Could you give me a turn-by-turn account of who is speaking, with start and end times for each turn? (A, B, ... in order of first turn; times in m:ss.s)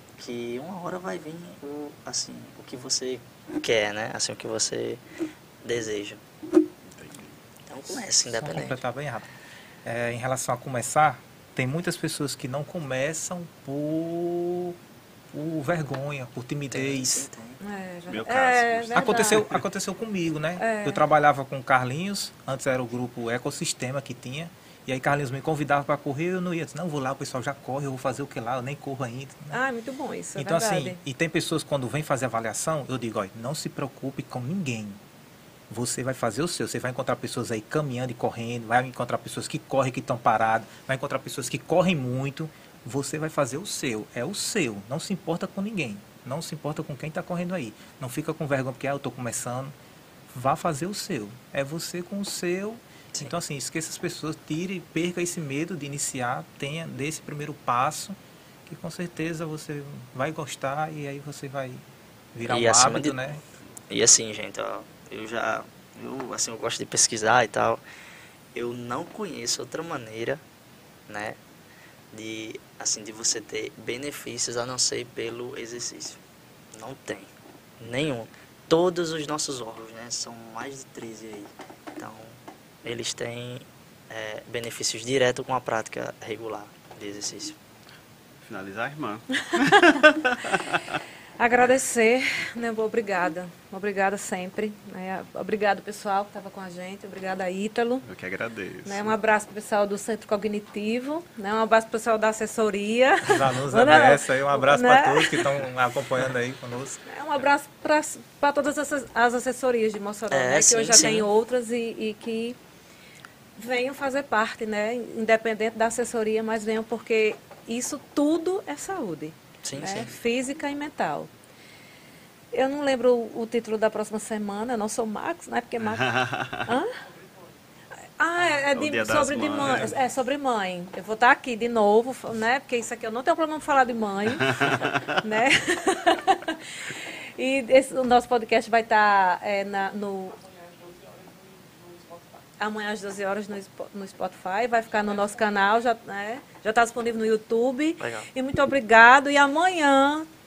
0:00.2-0:05.0 A
0:05.6-0:06.2 A
0:06.9-0:07.3 B
0:07.7-0:08.8 A
0:08.3-0:09.3 C
0:09.8-0:14.8 C
0:15.3-0:17.3 C
0:16.7-0:17.6 A
0:17.6-0:19.4 D
0:18.1-0:19.6 B
0:18.9-0:29.6 C
0:20.6-0:21.0 D
0:29.5-0:31.0 D
0:30.4-0:35.0 C
0:35.7-0:49.7 C
0:50.3-1:03.4 C
1:02.4-1:03.2 A
1:03.9-1:07.8 A
1:08.5-1:10.4 A
1:11.1-1:11.4 A
1:12.1-1:16.2 A
1:16.7-1:17.3 A
1:17.8-1:27.6 A
1:28.4-1:31.0 B
1:29.5-1:30.0 D
1:31.4-1:38.0 D
1:38.0-1:39.1 B
1:38.8-1:45.5 D
1:43.2-1:47.0 C
1:47.0-1:52.6 D
1:50.3-1:51.3 A
1:53.6-2:01.3 D
1:59.6-2:00.2 A
2:02.5-2:06.1 D
2:05.8-2:06.7 B
2:06.6-2:06.9 D
2:08.2-2:14.6 D
2:08.5-2:10.0 B
2:14.4-2:15.1 B
2:15.2-2:20.5 D
2:22.6-2:30.3 D
2:28.0-2:28.3 A